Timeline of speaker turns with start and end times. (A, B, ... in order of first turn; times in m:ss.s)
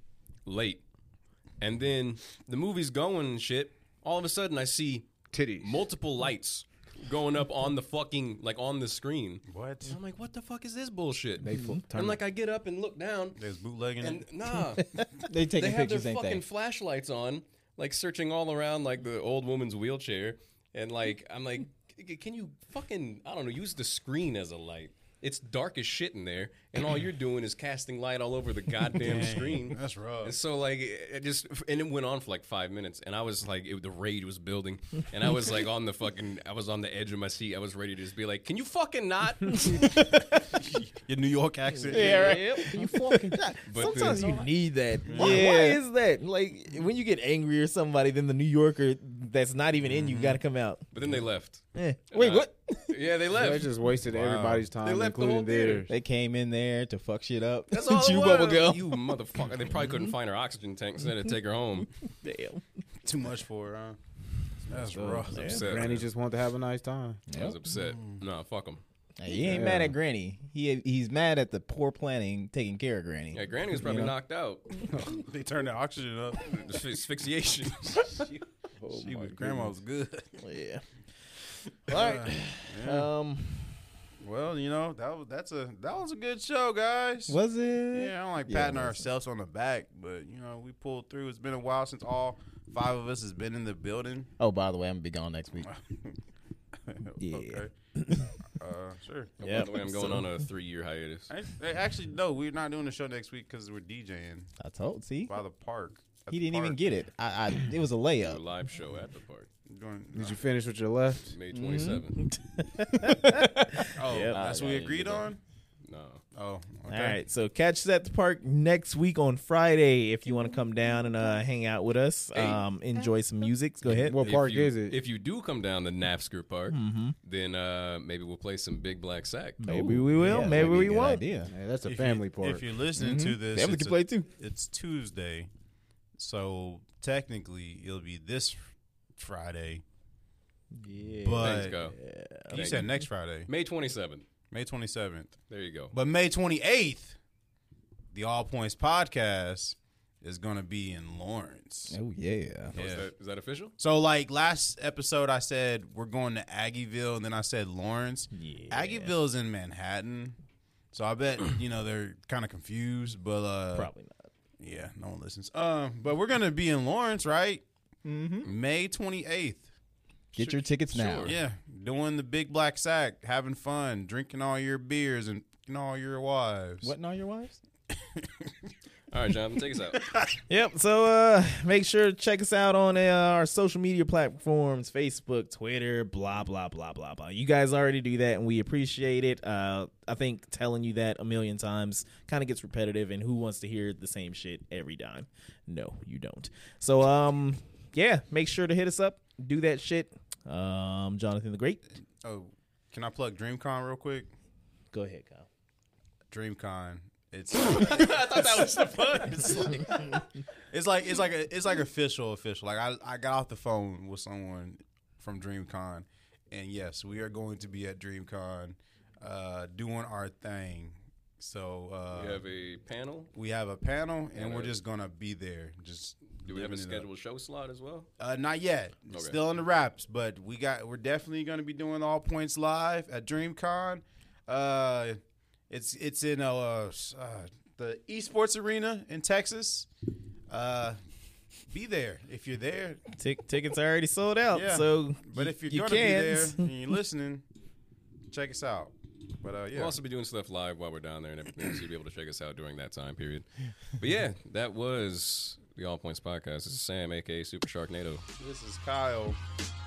0:00.5-0:00.8 A
0:01.6-0:13.4 A
0:05.3-0:05.8 B
0:09.5-0:10.0 C
0:11.4-0:12.2 B
0:13.4-0:14.2 C
0:14.0-0:40.1 A
0:15.2-0:16.4 D
0:29.0-0:30.4 C
0:40.7-0:42.4 C
0:41.8-0:50.8 E
0:41.9-0:44.4 D
0:42.1-0:44.3 B
0:43.6-0:44.4 A
0:45.0-0:45.5 C
0:45.1-0:45.8 D
0:49.9-0:50.4 C
0:50.9-0:53.8 A
0:51.8-0:52.3 E
0:52.2-0:52.5 D
0:53.3-0:55.9 B
0:54.1-0:54.7 C
0:54.8-0:55.9 A
0:55.9-0:59.0 D
0:57.7-1:01.9 A
1:02.2-1:02.6 E
1:03.0-1:04.0 C
1:04.7-1:05.9 C
1:04.7-1:07.2 B
1:05.3-1:06.1 A
1:05.3-1:05.6 E
1:07.3-1:07.6 D
1:07.3-1:08.8 A
1:07.8-1:08.2 C
1:09.2-1:14.1 D
1:09.4-1:09.9 B
1:13.3-1:14.9 A
1:15.0-1:16.8 C
1:16.5-1:18.2 A
1:17.9-1:18.2 C
1:18.8-1:19.8 B
1:18.9-1:20.4 C
1:20.4-1:23.8 E
1:21.9-1:23.1 C
1:24.2-1:27.4 C
1:27.3-1:29.1 D
1:27.9-1:34.3 C
1:34.4-1:35.7 D
1:35.6-1:36.2 C
1:36.9-1:37.7 C
1:37.2-1:38.3 E
1:38.4-1:39.3 C
1:39.4-1:40.3 E
1:39.4-1:41.3 A
1:41.3-1:44.5 C
1:44.6-1:45.4 D
1:45.3-1:46.8 C
1:46.3-1:48.4 D
1:48.2-1:49.5 A
1:49.7-1:50.4 C
1:50.1-1:51.3 B
1:51.3-1:52.3 A
1:51.6-1:55.3 E
1:51.7-1:52.0 D
1:54.0-1:55.4 C
1:55.8-1:56.2 A
1:56.3-1:57.2 C
1:56.9-2:04.2 E
2:02.3-2:02.6 A
2:03.9-2:05.0 B
2:04.1-2:09.6 A
2:06.7-2:07.2 E
2:09.6-2:11.2 E
2:09.7-2:10.9 B
2:09.7-2:11.5 D
2:11.5-2:12.6 B
2:11.8-2:15.5 C
2:13.0-2:13.6 D
2:13.5-2:14.3 E
2:16.2-2:19.8 C
2:20.8-2:22.9 E
2:21.2-2:21.8 C
2:21.4-2:22.0 A
2:22.5-2:24.3 A
2:22.5-2:23.5 C
2:24.5-2:25.4 C
2:25.5-2:25.9 A
2:25.9-2:27.2 C
2:28.1-2:32.0 C
2:31.9-2:32.8 D
2:32.7-2:33.1 C
2:32.7-2:33.8 A
2:33.8-2:40.4 C
2:38.3-2:39.1 E
2:40.9-2:43.9 C
2:43.7-2:44.3 E
2:44.6-2:47.6 C
2:48.0-2:48.5 D
2:48.4-2:49.7 C
2:50.4-2:51.4 D
2:50.4-2:51.4 A
2:51.2-2:56.9 C
2:56.8-2:57.6 D
2:58.2-2:58.7 C
2:59.1-3:00.2 A
3:00.0-3:00.3 C
3:00.5-3:21.8 E
3:22.2-3:24.3 C
3:24.9-3:25.5 E
3:26.3-3:30.2 C
3:27.6-3:30.0 A
3:30.7-3:42.4 C
3:42.1-3:43.3 A
3:43.4-3:47.1 C
3:44.3-3:44.8 A
3:46.4-3:48.1 A
3:48.2-3:55.2 C
3:49.1-3:49.4 A
3:55.7-3:59.9 C
4:00.5-4:01.0 C
4:01.7-4:03.0 C
4:03.2-4:06.7 E
4:04.5-4:07.4 C
4:08.3-4:10.0 C
4:09.7-4:13.5 A
4:14.0-4:18.2 A
4:18.4-4:19.4 C